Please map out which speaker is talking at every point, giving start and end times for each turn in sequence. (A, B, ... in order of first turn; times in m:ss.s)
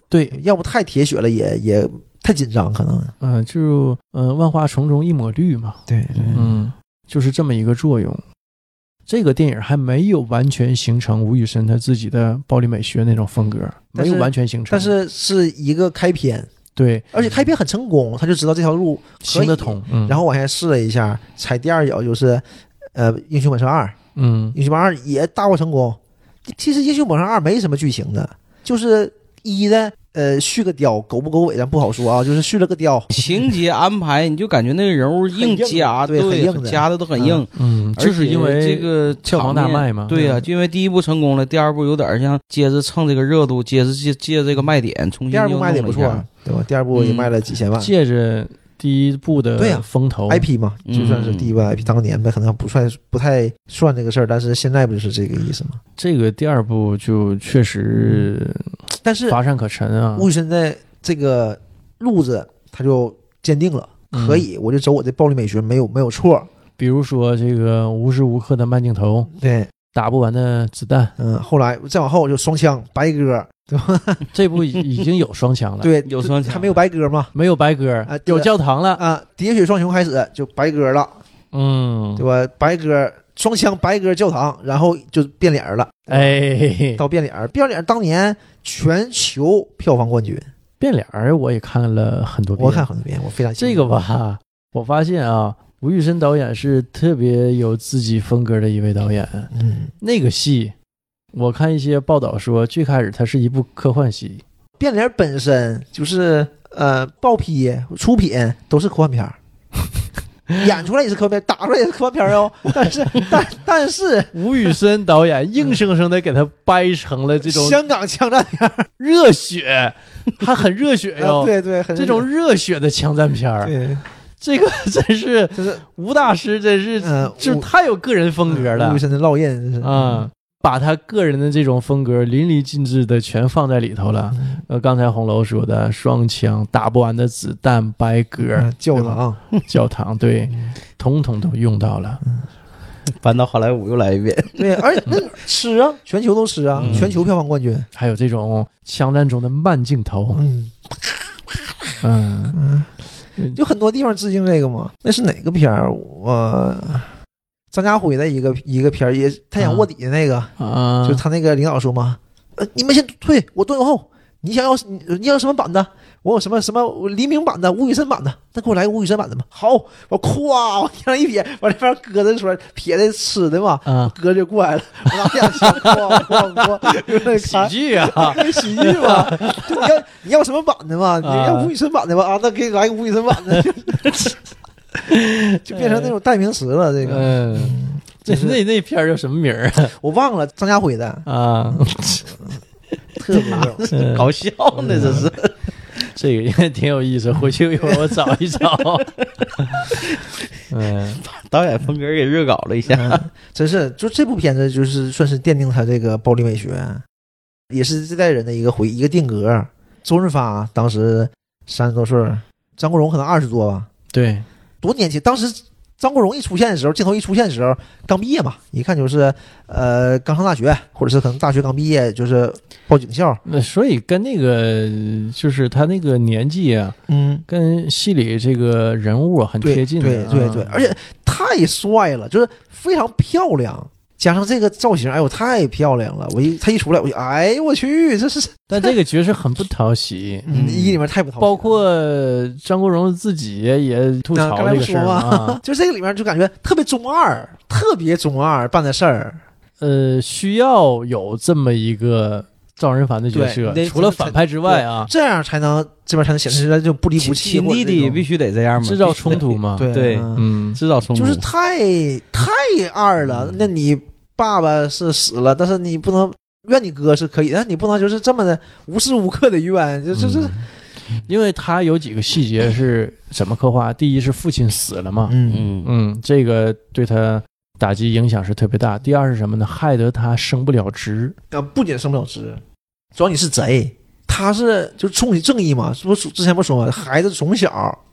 0:00.1-0:00.4 A
0:00.3-0:03.1 B
0:03.2-0:05.8 A
0:05.9-0:06.5 B
0:06.1-0:06.5 C
0:06.3-0:08.2 A
0:09.1-0:14.9 A
0:13.9-0:16.5 B
0:16.7-0:17.2 A
0:17.1-0:24.0 B
0:19.2-0:20.2 A
0:24.2-0:24.6 A
0:24.5-0:33.2 B
0:33.1-0:46.2 C
0:35.5-0:37.4 B
0:37.5-0:40.1 A
0:40.1-0:40.5 B
0:45.3-0:47.9 B
0:46.9-0:47.3 C
0:47.8-0:50.4 A
0:49.6-0:55.8 B
0:50.9-0:51.5 C
0:56.0-1:00.3 A
0:57.9-0:58.3 B
0:59.0-0:59.4 B
1:00.2-1:06.5 B
1:04.1-1:04.4 A
1:06.8-1:09.3 A
1:09.3-1:09.7 B
1:09.9-1:11.1 A
1:11.2-1:14.2 B
1:14.3-1:15.9 A
1:15.8-1:17.3 B
1:16.0-1:16.8 C
1:17.3-1:19.0 A
1:18.0-1:21.2 B
1:21.5-1:22.2 A
1:22.2-1:26.4 B
1:26.1-1:27.0 A
1:27.0-1:30.5 B
1:30.8-1:32.9 A
1:32.6-1:33.9 B
1:33.6-1:40.7 A
1:39.5-1:39.9 B
1:41.3-1:44.4 A
1:44.8-1:49.4 B
1:50.6-1:54.4 B
1:54.3-1:57.8 A
1:57.4-1:58.9 B
1:59.0-2:03.8 A
2:01.2-2:02.3 B
2:03.6-2:04.0 B
2:04.4-2:09.0 A
2:05.5-2:05.8 B
2:07.0-2:07.7 B
2:08.5-2:10.2 B
2:09.8-2:22.2 A
2:14.3-2:14.6 B
2:18.4-2:19.4 B
2:23.1-2:24.6 C
2:24.6-2:27.9 B
2:26.8-2:27.1 C
2:26.8-2:27.1 A
2:27.9-2:30.4 A
2:30.4-2:30.9 B
2:32.0-2:32.6 A
2:32.5-2:32.9 B
2:33.5-2:37.1 B
2:37.7-2:40.5 B
2:39.6-2:39.8 A
2:40.6-2:41.2 A
2:41.0-3:04.1 B
2:53.8-2:54.1 A
2:55.2-2:59.9 A
3:01.2-3:01.7 A
3:05.0-3:06.1 A
3:05.6-3:08.6 B
3:07.0-3:09.9 A
3:10.0-3:11.8 B
3:11.2-3:12.3 A
3:13.2-3:13.9 B
3:13.4-3:15.3 A
3:13.5-3:15.5 C
3:14.8-3:15.3 B
3:16.1-3:19.9 A
3:19.9-3:20.2 C
3:20.7-3:21.2 A
3:21.2-3:23.2 C
3:22.9-3:27.0 B
3:27.7-3:33.9 B
3:34.1-3:34.4 A
3:34.8-3:43.4 B
3:43.4-3:47.0 A
3:47.1-3:47.4 B
3:47.5-3:50.9 A
3:49.6-3:58.9 B
3:58.7-4:00.6 A
4:00.4-4:01.8 B
4:00.5-4:01.0 C
4:01.4-4:05.6 A
4:04.3-4:09.4 B
4:09.8-4:15.1 A
4:13.3-4:18.2 B
4:17.2-4:21.4 C
4:18.8-4:20.8 A
4:19.3-4:20.5 B
4:21.1-4:30.5 B
4:30.2-4:30.6 C
4:31.2-4:41.4 A
4:35.3-4:35.7 B
4:35.5-4:35.9 C
4:41.5-4:42.6 B
4:43.1-4:48.0 B